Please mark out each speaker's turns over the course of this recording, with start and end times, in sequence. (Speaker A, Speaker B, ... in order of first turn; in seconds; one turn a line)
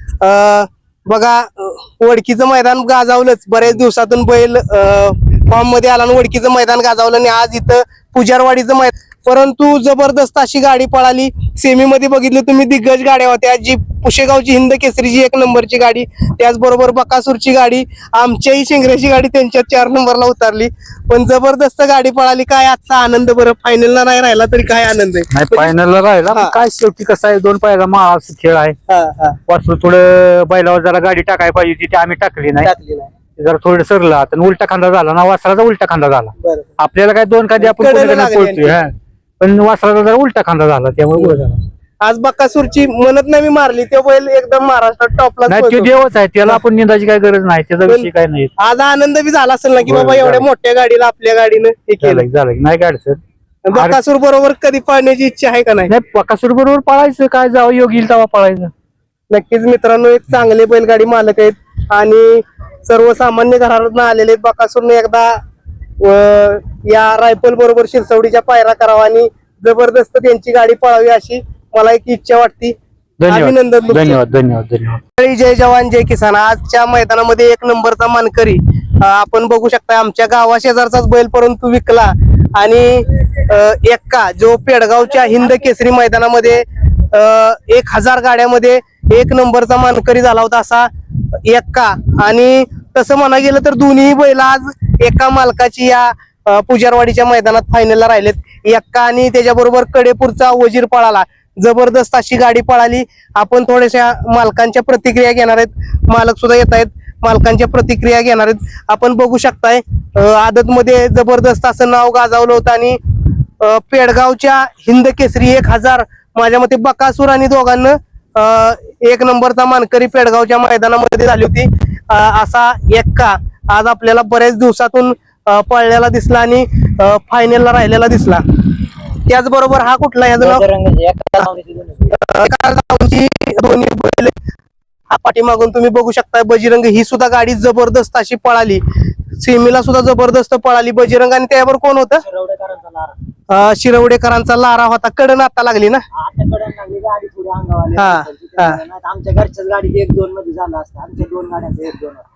Speaker A: 0.2-25.7
Speaker B: 25.3-28.8
Speaker A: 26.3-26.6
Speaker A: 28.9-29.4
Speaker B: 29.5-32.7
Speaker A: 32.6-33.1
Speaker B: 33.4-41.6
Speaker A: 36.4-36.7
Speaker A: 37.6-38.8
Speaker A: 42.0-45.9
Speaker B: 45.5-48.5
Speaker A: 47.9-52.3
Speaker B: 49.9-50.5
Speaker B: 52.0-53.2
Speaker A: 53.7-55.9
Speaker B: 53.7-54.0
Speaker B: 55.9-58.7
Speaker A: 59.3-65.4
Speaker A: 66.0-72.8
Speaker B: 73.2-75.0
Speaker A: 73.3-74.2
Speaker A: 75.2-90.9
Speaker A: 91.5-113.0
Speaker A: 113.6-128.4
Speaker A: 129.3-130.7
Speaker C: 130.4-132.1
Speaker A: 132.1-134.3
Speaker A: 135.1-138.8
Speaker A: 139.4-142.2
Speaker C: 142.2-143.2
Speaker A: 143.5-146.0
Speaker C: 146.1-152.2
Speaker A: 147.9-148.8